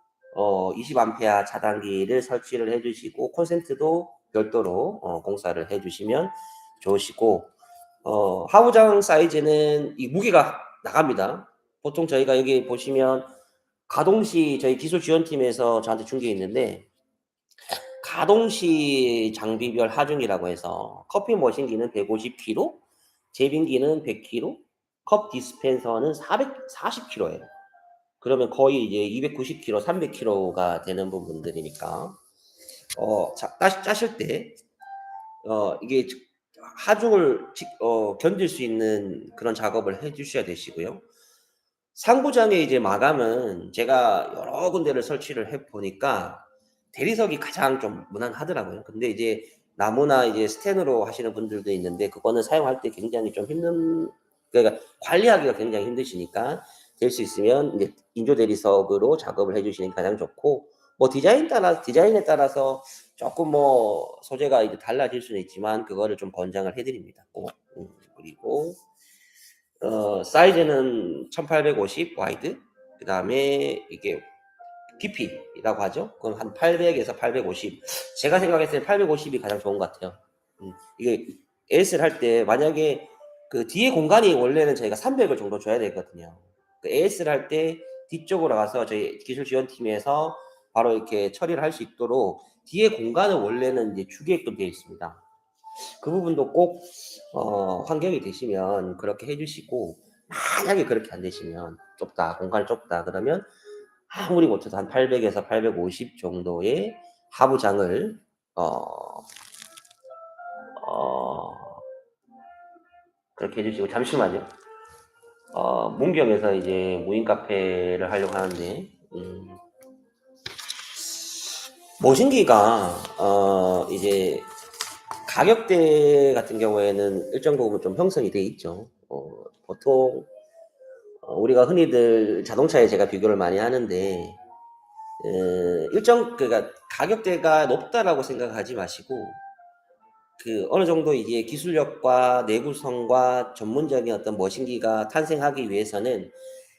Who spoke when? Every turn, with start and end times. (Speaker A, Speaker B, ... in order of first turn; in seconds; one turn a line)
Speaker A: 0.3-13.3
Speaker A: 13.9-16.9
Speaker A: 18.0-27.5
Speaker A: 28.2-32.2
Speaker A: 32.9-34.6
Speaker A: 35.4-41.0
Speaker A: 41.9-68.8
Speaker A: 69.8-74.2
Speaker A: 75.0-95.2
Speaker A: 96.0-103.5
Speaker A: 104.1-109.3
Speaker A: 110.8-111.8
Speaker A: 113.3-114.5
Speaker A: 115.5-119.6
Speaker A: 122.0-124.5
Speaker A: 125.2-130.3
Speaker A: 131.2-134.4
Speaker A: 135.2-139.4
Speaker A: 140.4-146.3